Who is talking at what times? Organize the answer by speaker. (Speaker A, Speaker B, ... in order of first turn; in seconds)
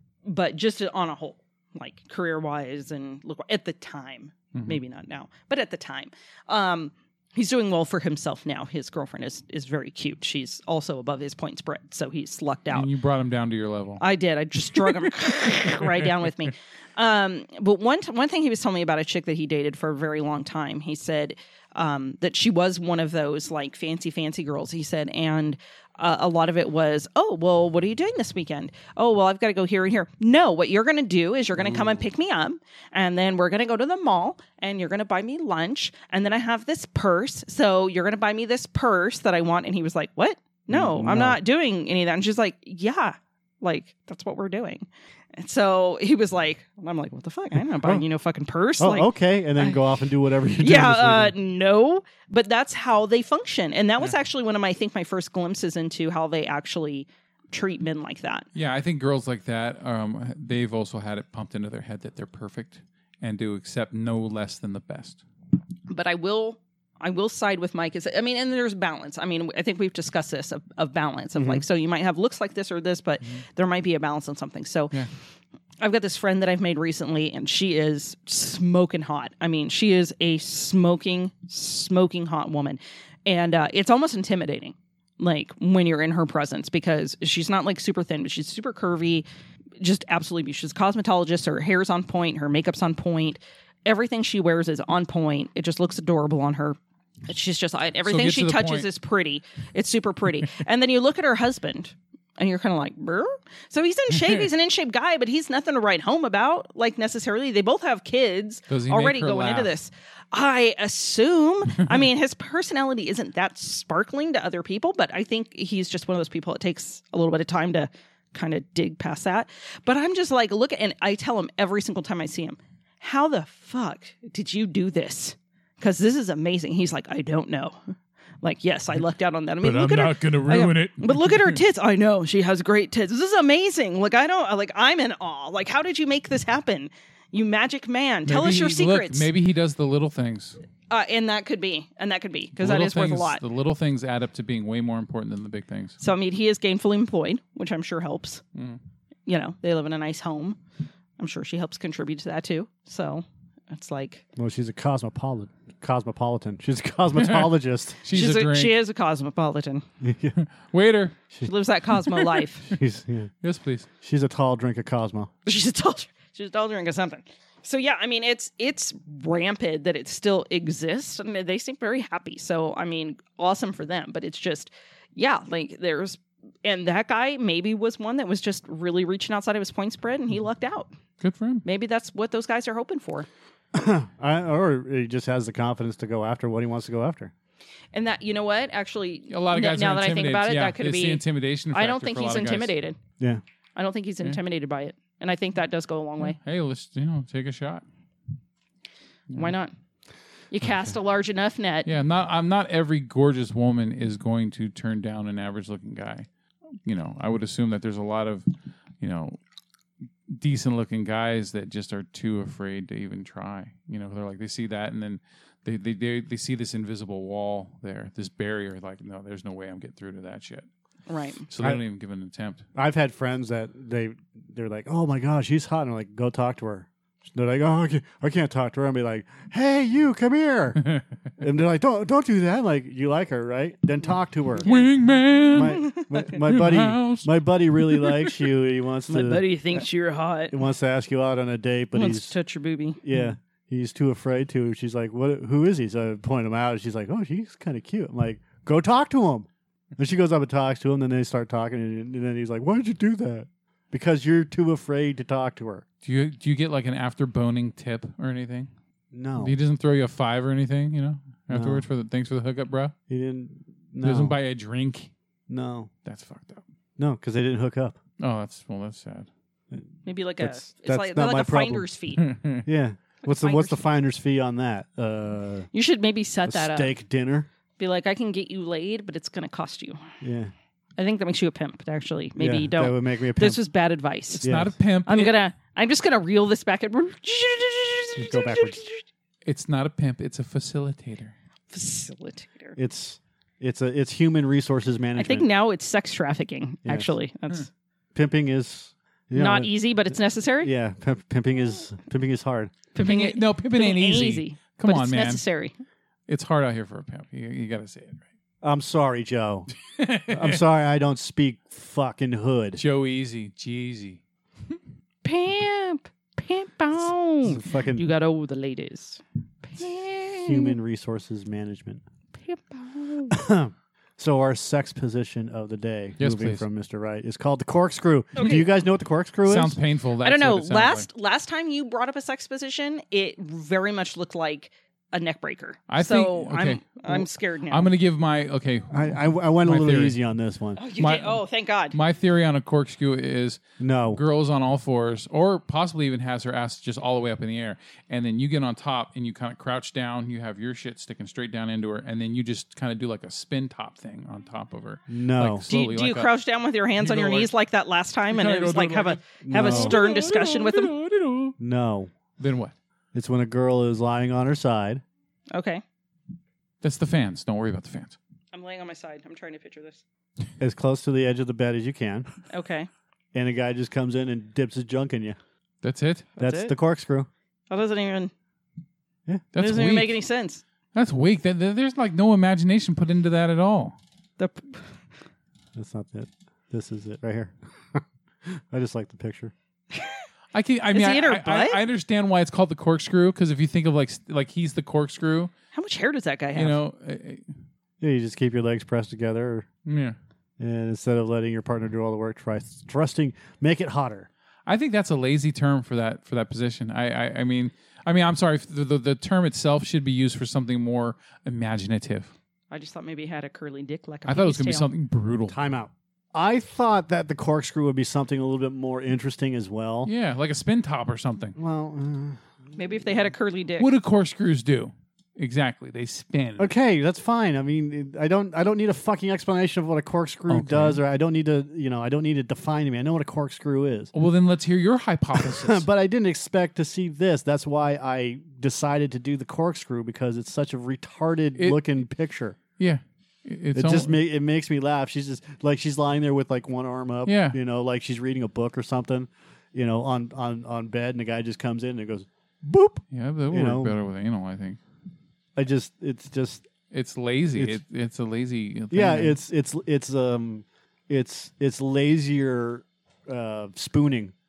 Speaker A: 0.2-12.9, 14.0-49.8, 50.6-58.5, 65.9-75.0, 75.8-89.2, 89.8-139.3, 140.9-143.4, 146.0-148.4, 149.3-150.6, 151.2-154.2, 158.1-159.8, 161.4-162.7, 165.4-180.9, 181.6-183.3, 187.9-192.9, 193.8-196.4, 199.3-199.7, 200.5-201.9, 221.1-221.4, 234.6-234.9, 235.8-236.0, 239.1-240.6, 241.9-243.0, 270.0-272.2, 273.2-273.8, 275.7-276.9, 277.8-280.0, 281.0-284.5, 285.1-289.0, 291.7-292.8, 295.1-297.7, 299.3-300.7, 302.9-305.8, 315.2-320.8, 322.4-323.4, 328.4-328.7, 330.2-337.9, 340.8-341.9, 355.7-360.9, 365.5-365.8, 368.5-370.0, 372.5-372.9, 376.4-376.7, 377.7-378.3, 379.6-380.6, 384.4-385.0, 389.9-390.2, 390.9-391.8, 395.7-396.8, 412.7-414.9, 422.7-423.9
Speaker B: 4.5-4.8, 12.7-14.0, 14.7-15.1, 58.5-65.2, 98.0-98.9, 108.7-109.7, 129.6-131.6, 138.2-140.6, 142.6-146.0, 157.2-158.8, 160.3-161.2, 162.2-162.4, 163.4-163.9, 181.2-181.6, 189.3-192.7, 196.2-197.8, 201.8-206.3, 206.8-208.4, 209.0-209.4, 210.3-220.7, 221.5-222.6, 234.6-238.3, 256.0-258.7, 259.4-262.9, 264.0-265.1, 266.0-266.6, 268.2-269.3, 272.2-272.7, 284.4-285.4, 289.4-291.3, 303.0-305.4, 306.3-308.2, 309.9-310.6, 312.8-314.2, 326.2-326.6, 329.4-331.1, 335.9-340.2, 340.9-343.6, 344.1-356.3, 357.0-357.5, 358.3-361.6, 362.4-362.7, 366.8-368.2, 375.8-376.3, 379.5-380.2, 380.9-383.9, 390.5-395.5, 396.5-397.5, 399.9-400.1, 404.7-412.3, 414.2-415.6, 420.0-421.6, 423.8-426.7, 430.5-431.0, 434.1-435.9, 442.8-444.1, 447.2-447.6, 453.1-454.8, 456.9-459.4
Speaker C: 40.7-41.4, 48.8-51.3, 71.3-71.6, 154.3-158.0, 160.0-160.3, 162.7-163.3, 164.0-165.3, 183.7-187.3, 222.7-230.8, 231.4-234.7, 235.5-239.4, 240.5-242.3, 243.0-255.8, 259.1-259.5, 261.5-261.8, 263.1-264.4, 265.5-265.9, 267.0-268.0, 270.4-271.9, 272.6-275.7, 276.4-277.5, 280.2-280.5, 282.4-283.6, 284.4-284.7, 288.2-288.8, 292.8-295.5, 296.8-297.1, 298.1-299.7, 300.6-302.7, 308.6-309.7, 310.3-312.8, 317.4-318.0, 320.4-322.0, 323.3-329.8, 338.9-340.8, 343.8-344.2, 355.1-355.6, 359.4-360.0, 361.6-362.1, 363.1-365.0, 370.6-372.3, 373.3-375.4, 376.4-377.3, 385.7-389.5, 398.0-399.7, 400.6-404.3, 415.5-420.1, 421.6-422.4, 426.6-434.1, 435.3-442.6, 443.7-453.9, 455.6-456.7, 457.5-457.8, 458.9-464.3